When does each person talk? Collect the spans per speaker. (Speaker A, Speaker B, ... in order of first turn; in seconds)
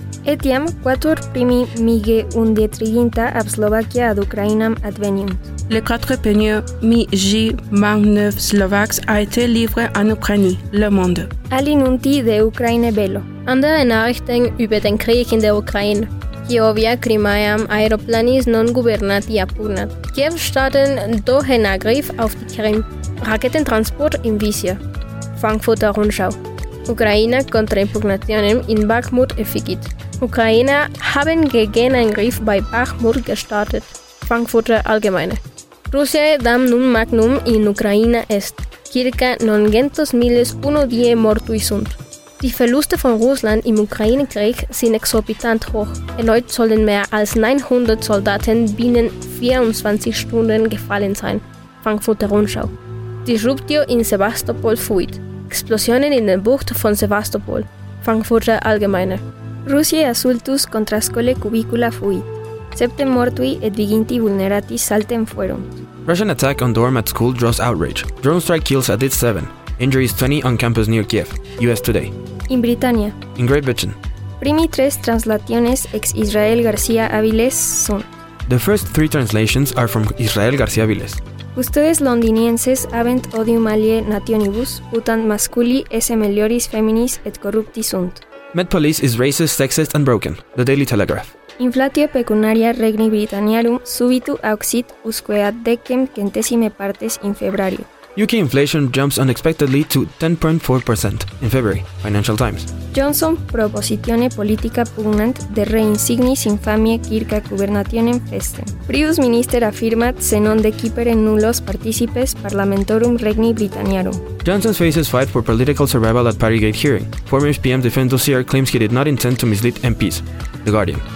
Speaker A: 0.2-5.5, 11.5-13.3, 59.6-65.8, 72.5-73.2, 74.4-78.1, 81.5-88.2, 91.6-97.9, 102.9-114.2
Speaker B: 5.7-11.3
Speaker C: 13.4-24.8, 25.4-52.7, 53.2-59.2
Speaker D: 66.0-72.1, 73.3-74.0, 78.5-81.2, 88.5-91.3, 98.1-102.7, 114.4-121.0